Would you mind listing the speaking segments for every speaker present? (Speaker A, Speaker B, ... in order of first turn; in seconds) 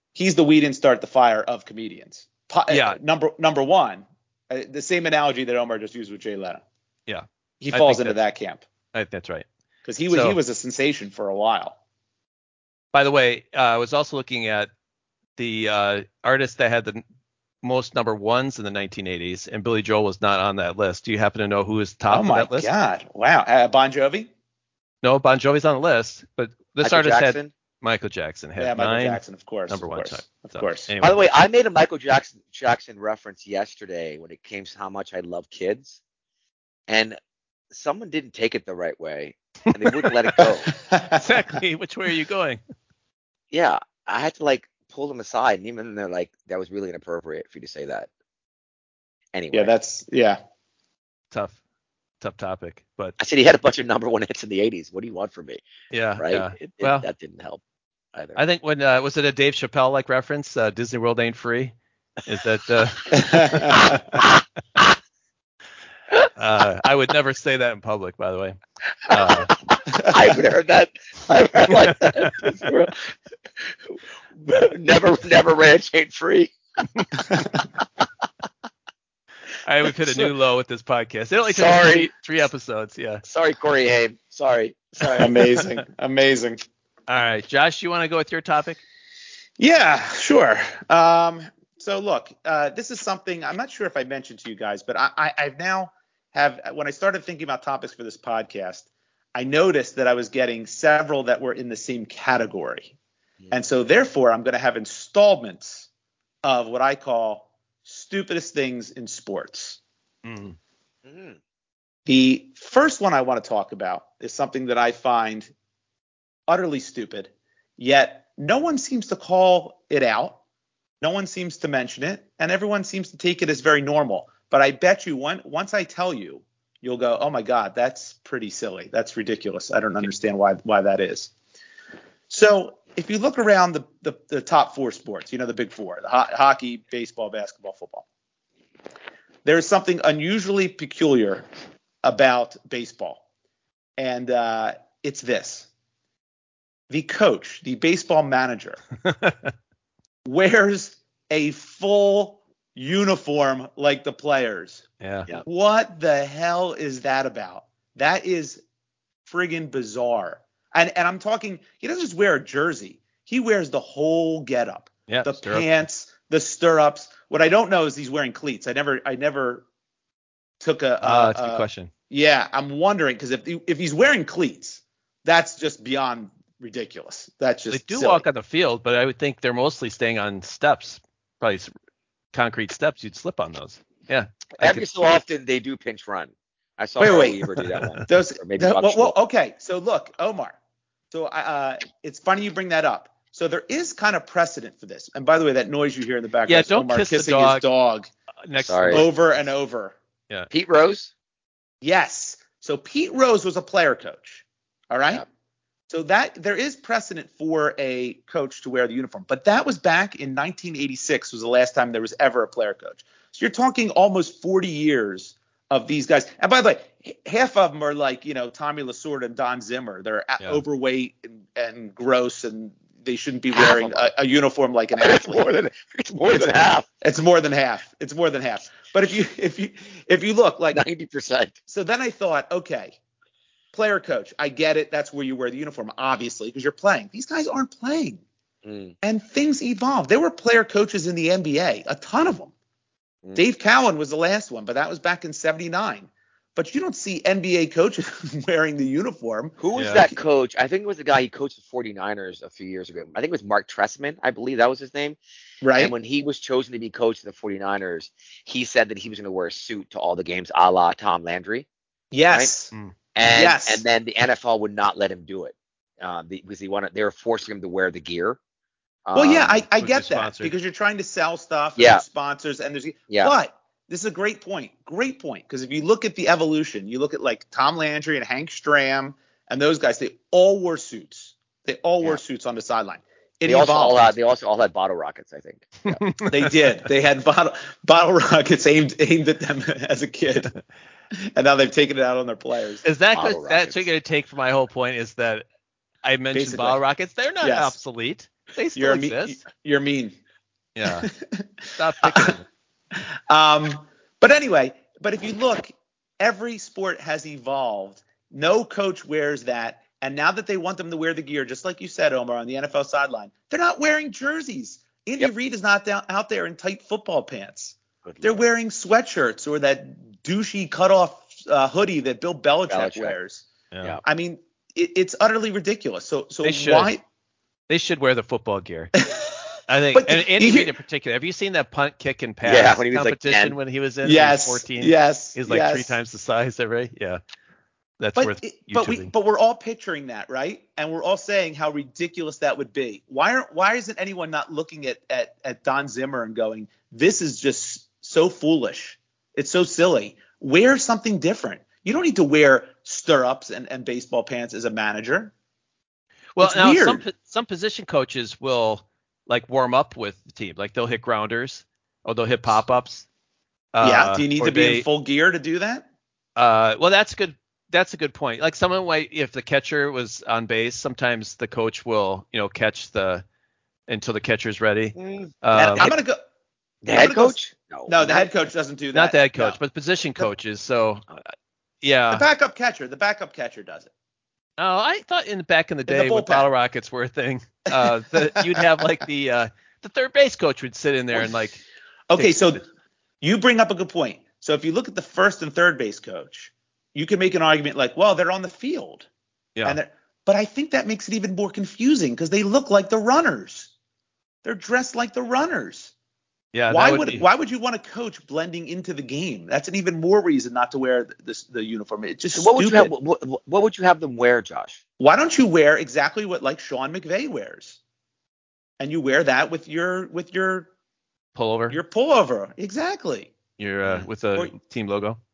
Speaker A: 0.1-6.6, 7.6-8.6, 9.8-11.8, 22.1-24.3, 28.6-30.9, 40.7-41.2, 49.5-50.4, 63.1-64.0, 85.2-86.6, 89.6-102.9, 103.5-105.9, 106.4-109.8, 112.1-115.5, 116.5-120.4, 121.0-131.3, 132.3-138.1, 139.4-141.5, 142.0-143.2, 144.0-145.7, 146.9-148.8, 150.2-154.9, 155.4-158.6, 159.3-169.7, 170.6-178.2, 187.0-187.4, 188.1-190.6, 191.1-198.1, 198.9-200.0, 201.8-205.2, 205.9-225.5, 227.0-230.8, 231.7-233.0, 233.7-238.2, 239.0-242.5, 243.3-250.2, 255.6-255.9, 262.1-262.7, 263.3-263.8, 269.1-284.1, 286.3-290.5, 291.4-292.8, 296.3-296.8, 297.4-297.8, 298.8-300.2, 300.9-302.4, 302.9-323.5, 324.0-327.0, 329.0-329.4, 329.9-330.7, 334.1-336.0, 338.2-355.3, 356.4-357.0, 363.8-365.9, 375.5-376.2, 376.9-379.6, 382.1-383.9, 385.9-386.5, 387.8-388.6, 392.1-392.6, 393.2-399.1, 399.6-403.7, 404.4-405.9, 406.7-412.9, 415.0-417.8, 418.8-420.7, 421.7-423.3
Speaker B: 2.7-3.0, 7.1-8.2, 8.9-9.5, 10.1-10.4, 12.9-14.7, 15.4-17.0, 17.6-22.7, 25.0-31.2, 41.1-42.6, 51.3-51.6, 52.2-53.1, 55.9-57.1, 58.4-63.9, 66.4-68.6, 69.1-69.5, 79.6-83.2, 87.1-88.8, 110.2-110.6, 149.1-149.5, 155.0-155.3, 165.1-165.7, 171.0-171.9, 177.7-181.7, 182.3-184.9, 187.8-188.0, 196.5-197.6, 198.5-199.1, 249.7-250.0, 269.8-270.5, 285.9-286.5, 292.8-295.4, 296.0-299.4, 300.8-301.1, 301.8-302.5, 323.7-324.0, 326.4-326.9, 327.7-328.9, 329.7-337.2, 338.0-339.1, 356.4-363.1, 363.7-364.9, 366.4-373.2, 373.9-375.9, 378.9-381.1, 381.8-382.3, 384.6-391.6, 392.2-392.6, 406.5-407.3, 421.4-421.8, 423.6-425.2
Speaker C: 26.8-27.5, 31.0-36.0, 36.9-37.2, 37.7-40.7, 43.5-48.1, 49.3-49.7, 53.2-55.6, 56.2-57.6, 58.1-58.4, 63.7-64.3, 69.1-73.0, 74.4-76.5, 81.5-82.1, 83.2-85.3, 111.0-111.4, 184.6-189.2, 198.6-199.1, 200.5-201.1, 223.5-224.1, 225.0-226.9, 230.7-231.6, 238.6-238.9, 249.6-255.2, 255.8-261.7, 263.1-268.4, 269.1-269.6, 271.8-272.0, 273.1-273.3, 283.4-286.0, 293.1-293.9, 318.0-318.4, 322.7-323.1, 332.4-333.6, 375.0-375.9, 376.8-378.3, 412.3-414.8